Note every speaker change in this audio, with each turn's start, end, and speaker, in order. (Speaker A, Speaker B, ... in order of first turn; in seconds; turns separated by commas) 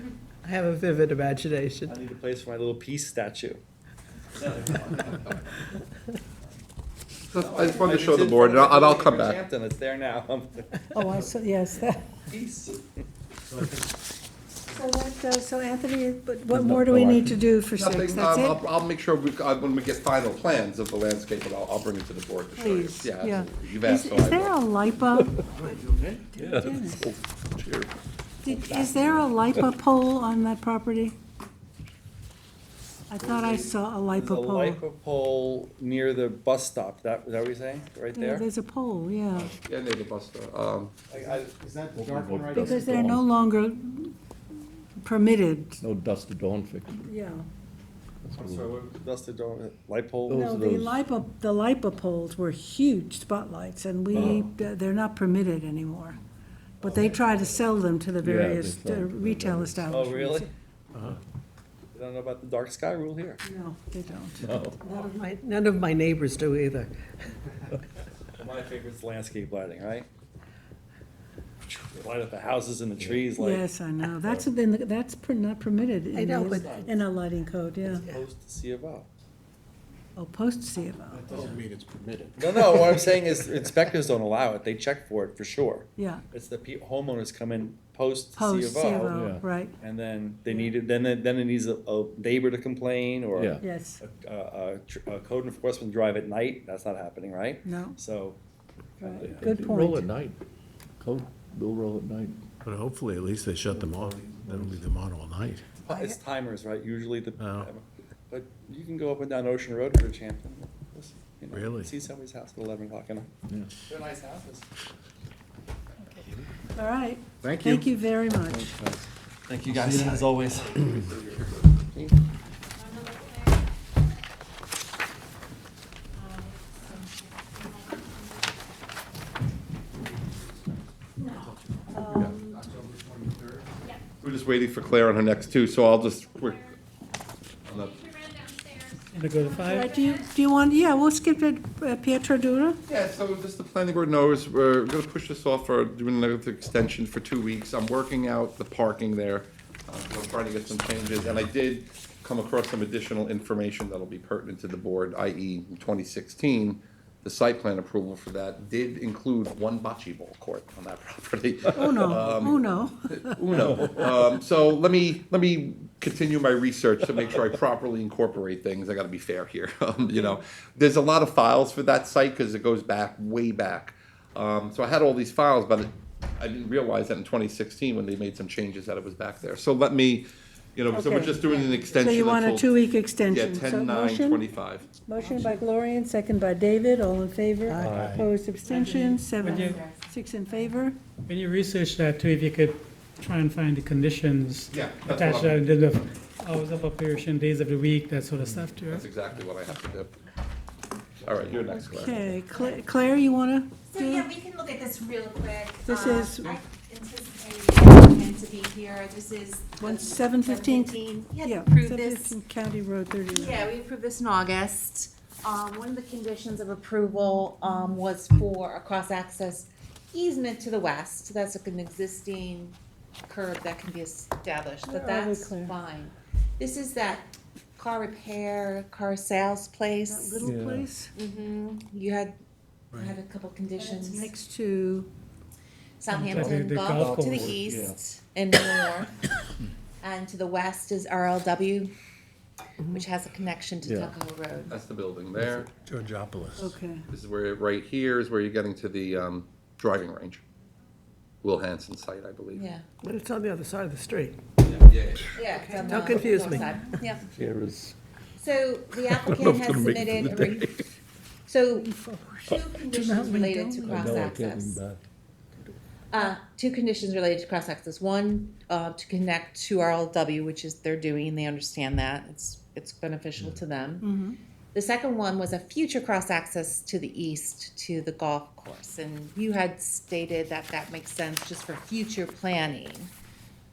Speaker A: 0.4-1.9, Speaker B: 1.8-3.6, Speaker B: 4.3-5.3, Speaker C: 7.3-9.4, Speaker B: 7.4-10.9, Speaker D: 10.9-12.0, Speaker B: 12.2-13.0, Speaker E: 13.5-13.9, Speaker D: 14.7-18.6, Speaker F: 16.5-17.3, Speaker C: 17.7-24.6, Speaker D: 22.6-27.1, Speaker F: 26.4-26.9, Speaker C: 27.0-27.8, Speaker D: 28.4-31.1, Speaker D: 33.1-34.8, Speaker B: 33.2-38.5, Speaker D: 38.1-39.5, Speaker C: 39.6-40.9, Speaker B: 41.1-41.5, Speaker E: 41.1-43.1, Speaker F: 41.9-43.2, Speaker D: 42.5-44.1, Speaker D: 45.0-45.8, Speaker F: 45.8-47.1, Speaker D: 47.0-47.5, Speaker F: 48.3-48.7, Speaker B: 48.3-50.5, Speaker F: 50.3-51.0, Speaker D: 50.3-56.2, Speaker B: 54.1-54.5, Speaker F: 54.1-54.4, Speaker B: 56.8-57.6, Speaker D: 56.8-60.5, Speaker F: 58.2-59.9, Speaker B: 59.9-60.5, Speaker B: 61.9-63.4, Speaker D: 63.4-64.7, Speaker F: 64.4-64.8, Speaker A: 64.8-66.9, Speaker B: 68.3-70.1, Speaker B: 71.7-73.7, Speaker D: 73.4-78.0, Speaker A: 76.1-77.0, Speaker A: 77.9-78.2, Speaker B: 78.0-79.1, Speaker D: 80.2-81.4, Speaker E: 81.1-82.9, Speaker B: 82.4-89.2, Speaker D: 86.0-86.2, Speaker D: 88.3-89.7, Speaker F: 89.0-89.4, Speaker B: 89.8-98.4, Speaker F: 93.3-93.6, Speaker D: 93.6-94.0, Speaker D: 97.6-98.0, Speaker D: 99.0-100.1, Speaker F: 99.2-100.4, Speaker F: 101.0-102.5, Speaker G: 102.6-105.6, Speaker F: 103.7-104.8, Speaker B: 105.8-113.3, Speaker D: 105.9-106.2, Speaker G: 107.4-107.7, Speaker G: 111.5-111.9, Speaker B: 113.9-114.6, Speaker D: 116.7-118.7, Speaker B: 119.5-121.2, Speaker C: 120.5-121.8, Speaker H: 126.2-128.3, Speaker D: 131.9-132.6, Speaker E: 132.1-133.7, Speaker C: 134.2-136.7, Speaker C: 137.6-138.1, Speaker H: 138.1-138.7, Speaker I: 139.1-139.9, Speaker D: 139.6-142.8, Speaker C: 142.9-184.9, Speaker D: 161.7-163.6, Speaker D: 180.9-181.4, Speaker H: 181.3-182.1, Speaker D: 182.0-184.4, Speaker D: 185.0-191.0, Speaker A: 187.7-188.1, Speaker F: 187.8-188.2, Speaker H: 188.6-190.0, Speaker I: 189.4-189.8, Speaker I: 191.3-199.0, Speaker C: 194.7-195.6, Speaker C: 198.9-200.1, Speaker C: 201.2-202.3, Speaker D: 201.7-204.3, Speaker H: 202.5-202.8, Speaker H: 203.9-212.4, Speaker D: 205.8-206.6, Speaker D: 209.8-213.7, Speaker H: 213.3-222.8, Speaker H: 223.3-230.6, Speaker D: 224.8-225.7, Speaker D: 230.1-231.1, Speaker F: 230.4-230.9, Speaker H: 231.1-232.3, Speaker H: 232.9-234.3, Speaker D: 233.8-235.1, Speaker H: 236.0-239.1, Speaker I: 236.1-237.5, Speaker F: 237.0-238.0, Speaker H: 240.0-241.9, Speaker H: 242.9-244.7, Speaker F: 243.8-244.1, Speaker C: 244.7-245.7, Speaker G: 245.8-246.7, Speaker D: 246.6-247.1, Speaker C: 247.1-250.4, Speaker C: 251.4-252.7, Speaker H: 252.5-252.8, Speaker A: 253.0-254.4, Speaker C: 254.6-255.4, Speaker H: 255.3-257.2, Speaker A: 255.5-256.8, Speaker F: 257.2-257.9, Speaker H: 258.4-260.8, Speaker F: 259.0-260.8, Speaker H: 261.5-261.9, Speaker D: 261.8-264.4, Speaker H: 262.4-264.8, Speaker F: 263.9-265.0, Speaker H: 266.1-274.1, Speaker D: 274.0-274.4, Speaker H: 274.7-283.1